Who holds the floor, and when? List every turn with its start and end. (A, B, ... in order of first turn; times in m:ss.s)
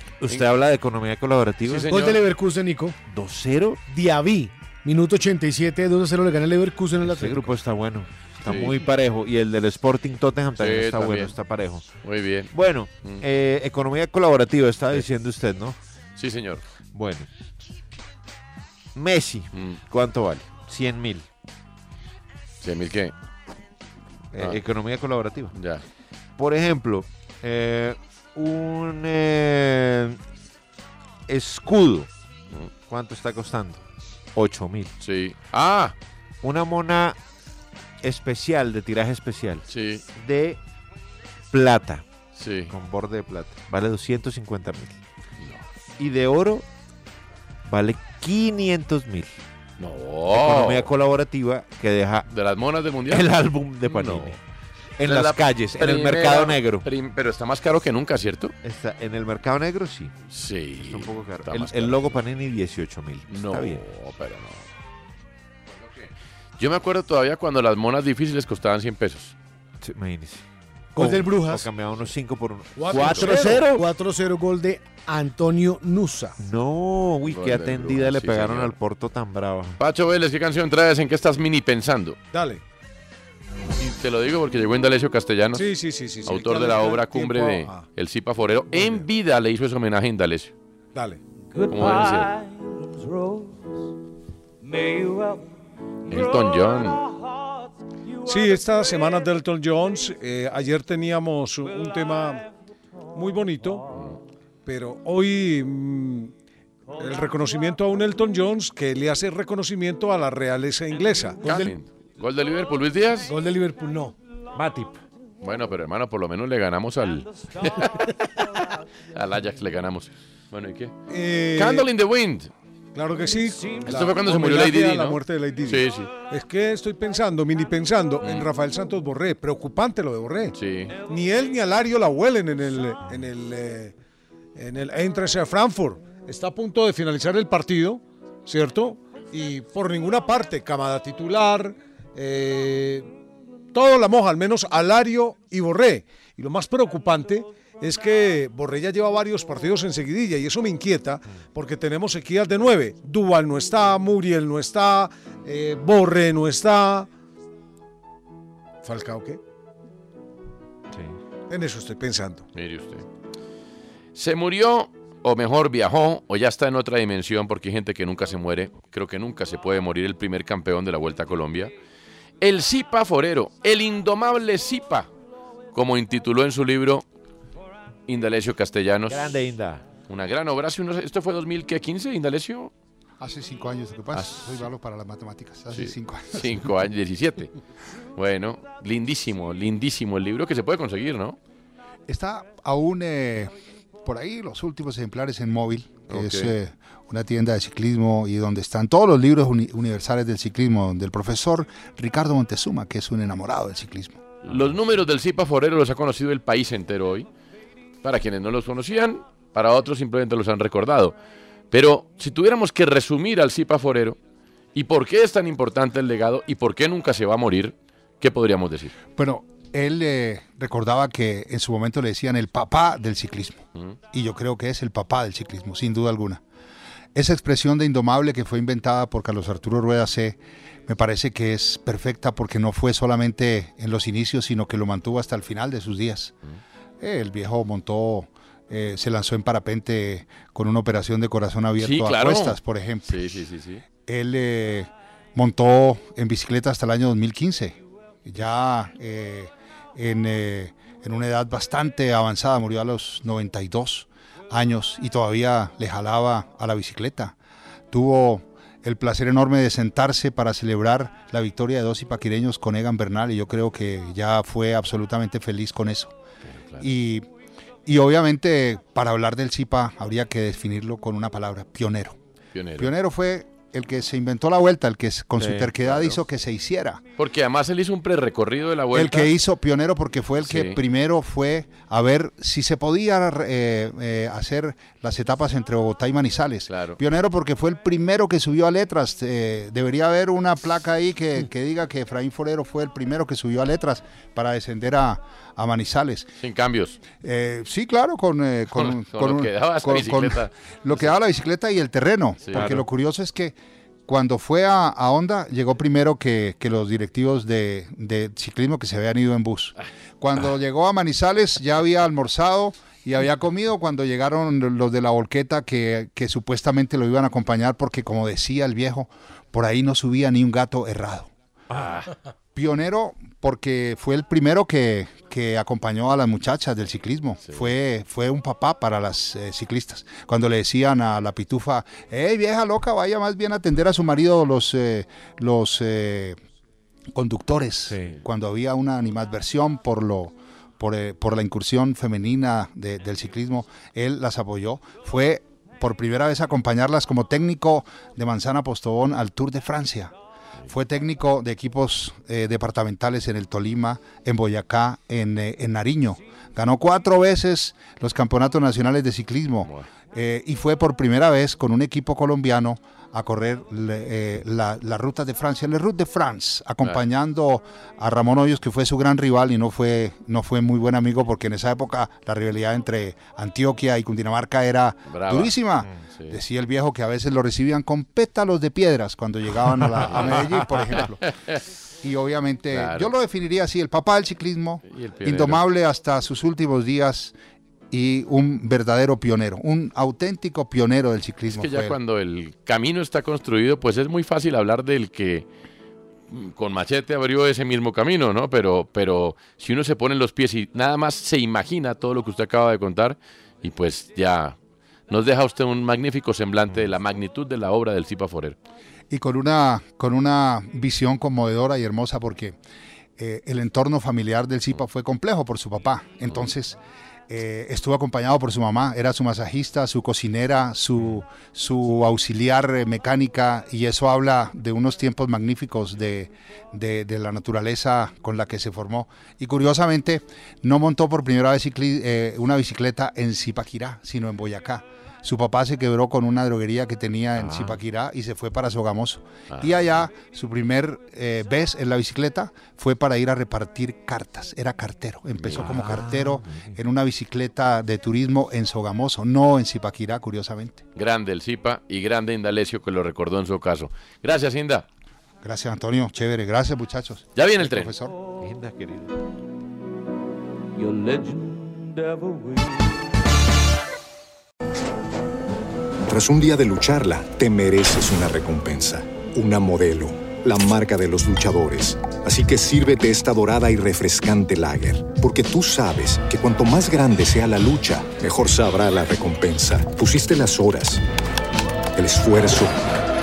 0:00.2-0:01.9 A
0:01.7-0:02.2 B
0:01.9-0:03.0 C
0:03.1-0:03.8 A
0:03.9-0:07.5 C
0:07.0-0:11.9 A
0:08.5-0:08.8 B
0:10.6-0:11.3 B
0:12.0-0:12.5 B
0:12.5-0:15.8 A
0:16.2-0:16.6 B
0:16.9-0:17.3 A
0:19.0-0:21.3 A
0:22.6-0:23.1 B
0:24.3-0:25.5 A
0:25.6-0:25.8 B
0:26.4-0:30.2 A
0:31.3-0:32.1 A
0:32.9-0:33.8 A
0:34.3-0:34.9 A
0:35.0-0:36.0 B
0:36.4-0:37.2 A
0:38.0-0:40.6 A
0:39.7-0:40.0 B
0:41.5-0:42.0 A
0:42.4-0:42.7 B
0:42.7-0:45.0 A
0:46.0-0:46.7 A
0:47.6-0:49.4 A
0:49.8-0:50.9 B
0:50.3-0:52.3 A
0:52.3-0:53.3 B
0:53.1-0:54.4 A
0:53.8-0:54.4 B
0:55.0-0:56.9 A
0:55.0-0:58.5 B
0:58.6-1:00.1 A
1:00.3-1:02.2 B
1:00.8-1:03.8 A
1:03.3-1:04.7 B
1:06.6-1:09.4 B
1:09.8-1:10.4 A
1:11.0-1:11.7 C
1:11.0-1:13.8 A
1:12.8-1:13.7 D
1:12.9-1:13.3 B
1:13.6-1:16.4 C
1:16.4-1:19.8 A
1:17.3-1:18.8 B
1:19.8-1:22.2 B
1:22.3-1:22.6 D
1:23.8-1:25.7 B
1:25.6-1:27.8 D
1:26.2-1:30.5 B
1:28.7-1:29.0 D
1:31.0-1:31.2 D
1:31.6-1:32.4 B
1:36.1-1:37.0 B
1:38.3-1:42.4 D
1:43.1-1:43.8 D
1:44.6-1:46.3 D
1:47.0-1:51.6 D
1:51.4-1:51.7 C
1:51.4-1:53.3 B
1:53.2-1:54.2 C
1:54.6-1:55.0 A
1:55.4-1:58.1 B
1:59.1-2:00.9 B
2:01.1-2:01.9 D
2:01.6-2:02.5 B
2:03.0-2:10.6 D
2:03.8-2:06.1 B
2:08.2-2:08.5 B
2:10.6-2:11.0 B
2:11.1-2:13.9 D
2:14.6-2:23.1 D
2:23.7-2:37.1 D
2:38.8-2:39.4 D
2:41.5-2:42.4 D
2:42.6-2:43.0 B
2:44.2-2:51.7 B
2:52.4-2:55.1 B
2:55.7-2:57.0 B
2:58.1-2:59.3 B
2:59.1-2:59.9 A
3:00.1-3:02.7 B
3:03.2-3:06.7 E
3:04.1-3:04.6 B
3:05.7-3:07.5 B
3:08.2-3:11.4 B
3:12.1-3:13.5 E
3:14.0-3:24.2 E
3:16.1-3:16.5 B
3:24.4-3:27.3 B
3:28.0-3:31.2 B
3:31.7-3:34.2 B
3:34.8-3:39.0 B
3:39.2-3:46.4 E
3:47.2-3:56.3 E
3:57.0-4:03.2 E
4:01.8-4:03.8 B
4:04.0-4:17.4 E
4:17.9-4:26.1 E
4:26.8-4:27.3 E
4:27.9-4:32.2 E
4:32.5-4:32.9 B
4:32.8-4:37.0 E
4:35.4-4:35.9 A
4:37.2-4:39.3 B
4:38.9-4:56.3 E
4:40.4-4:40.8 B
4:46.7-4:47.0 B
4:56.4-4:57.0 B
4:57.1-5:03.6 E
4:58.8-5:01.1 B
5:02.4-5:02.8 B
5:02.5-5:02.8 A
5:04.1-5:21.3 E
5:21.7-5:22.0 B
5:22.6-5:36.4 E
5:27.4-5:27.7 B
5:37.1-5:50.1 E
5:37.9-5:38.2 A
5:50.7-6:21.2 E
6:15.1-6:15.6 B
6:20.2-6:20.6 A
6:22.0-6:27.4 E
6:22.7-6:23.1 B
6:24.9-6:25.6 B
6:27.9-6:32.0 E
6:31.5-6:35.5 B
6:36.3-6:44.6 B
6:45.1-6:48.6 B
6:49.1-6:52.6 E
6:53.2-7:30.8 E
7:17.4-7:17.8 A
7:19.5-7:20.0 B
7:25.5-7:26.8 A
7:31.0-7:34.9 B
7:35.4-7:38.2 E
7:37.4-7:37.9 B
7:38.4-7:39.2 A
7:40.9-7:41.4 A
7:46.1-8:01.0 F
8:02.0-8:02.9 F